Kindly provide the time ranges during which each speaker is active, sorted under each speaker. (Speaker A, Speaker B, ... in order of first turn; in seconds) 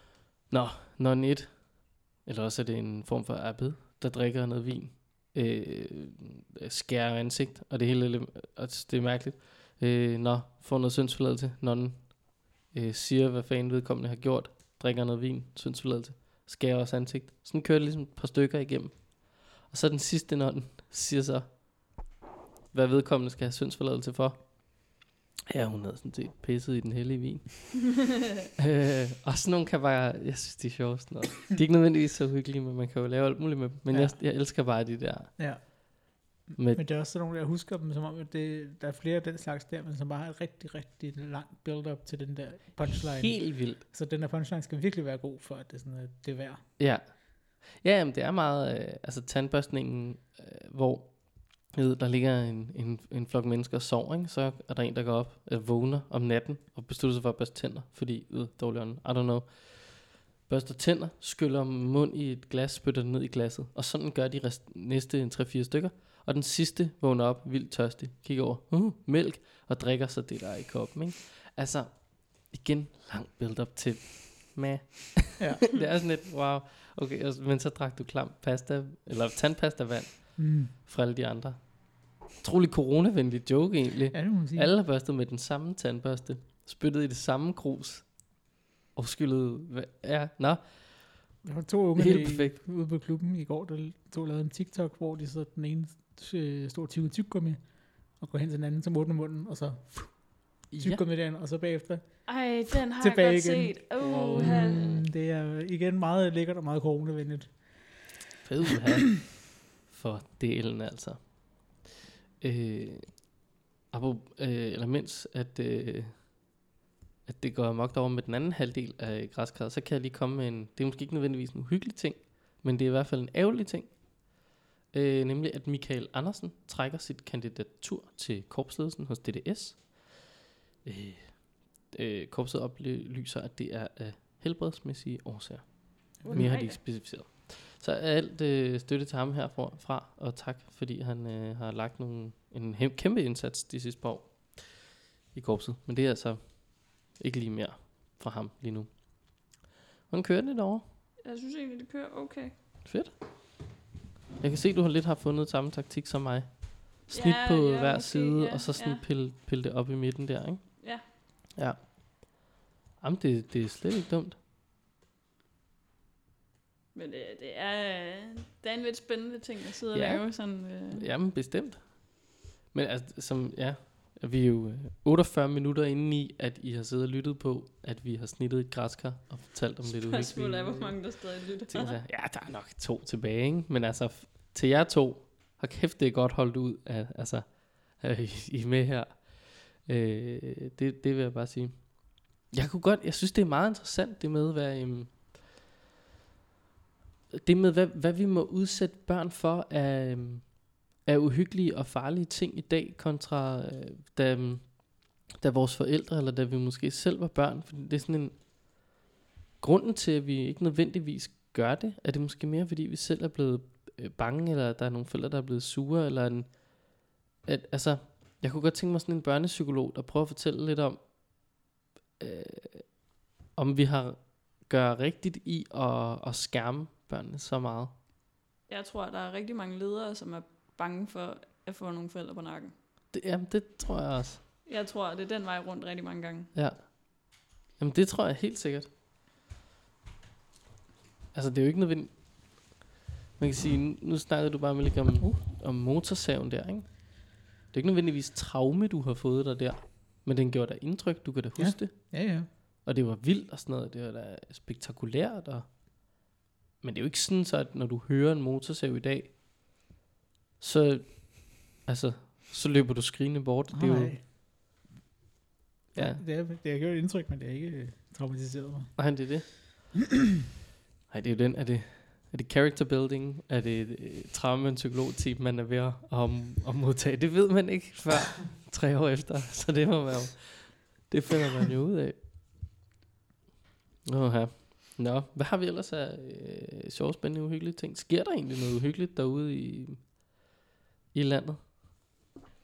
Speaker A: 0.5-22.0, 22.7-35.7, 36.5-36.8, 43.1-43.8, 46.8-91.4, 92.0-92.6, 100.7-101.0, 104.3-105.0, 108.4-111.9, 112.4-116.4, 117.2-130.3, 130.8-149.6, 150.1-150.9, 152.8-153.7, 154.4-161.0, 161.6-162.4, 163.0-164.4, 169.9-195.3, 197.3-208.8, 209.6-221.6, 222.2-227.9, 233.1-234.4, 236.5-238.9, 241.3-242.8, 243.4-256.3, 256.8-259.4, 260.6-264.2, 265.9-266.2, 268.9-269.9, 271.1-282.2, 284.0-290.2, 291.1-292.0
Speaker B: 33.9-34.2, 35.4-46.7, 80.4-80.7, 84.1-84.7, 91.4-108.2, 136.2-136.6, 251.6-252.5, 263.7-264.2, 265.9-269.6
Speaker C: 102.2-104.9, 136.2-136.8, 151.2-152.5, 157.1-159.0, 166.9-171.1, 179.9-182.0, 228.7-232.7, 234.7-236.5